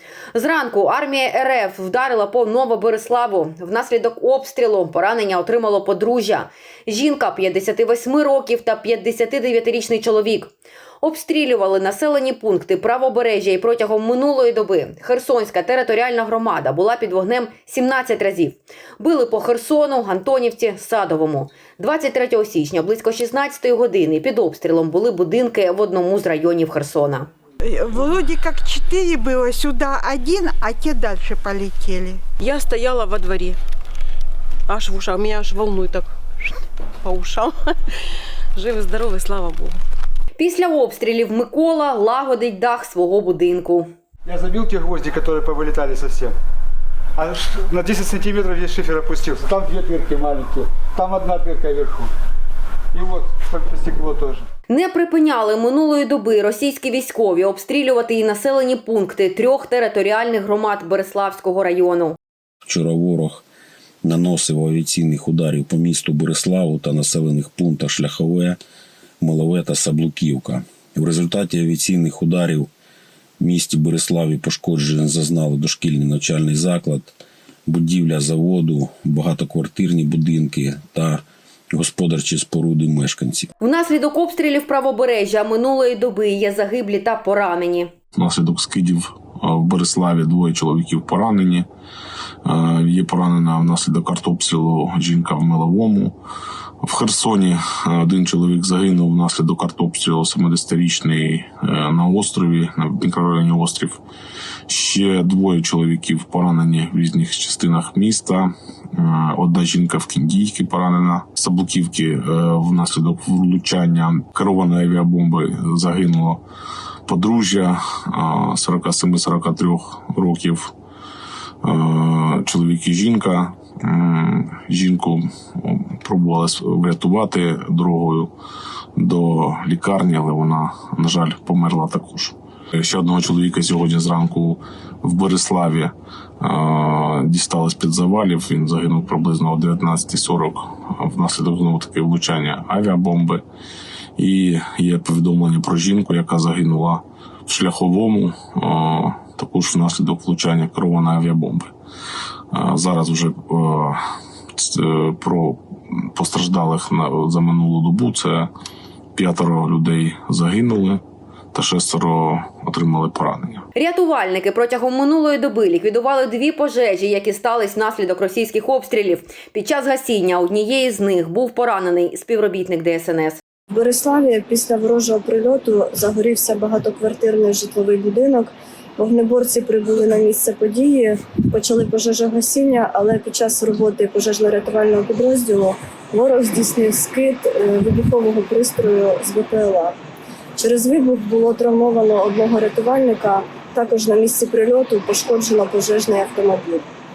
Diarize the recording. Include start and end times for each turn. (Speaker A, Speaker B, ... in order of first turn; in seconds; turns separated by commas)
Speaker A: 0.3-27.3, Speaker B: 27.6-32.2, Speaker C: 32.4-33.6, Speaker C: 34.7-36.1, Speaker C: 37.0-37.8, Speaker C: 38.5-39.8, Speaker A: 40.4-43.9, Speaker D: 44.3-46.4, Speaker D: 47.2-52.1, Speaker D: 52.9-54.5, Speaker A: 54.7-62.2, Speaker E: 62.6-63.5, Speaker E: 64.0-68.6, Speaker E: 69.2-72.7, Speaker E: 73.4-77.1, Speaker E: 77.7-83.5, Speaker A: 83.6-87.9, Speaker F: 88.2-91.7, Speaker F: 92.5-96.2, Speaker F: 96.8-104.0, Speaker F: 104.7-116.4, Speaker F: 117.1-120.7, Speaker F: 121.6-128.3, Speaker F: 129.0-143.4, Speaker F: 144.2-151.7, Speaker F: 152.5-154.0, Speaker F: 154.6-155.6, Speaker F: 156.2-158.5, Speaker F: 159.2-161.0, Speaker F: 161.5-163.7, Speaker A: 163.8-173.4, Speaker G: 173.7-190.0, Speaker G: 190.6-196.8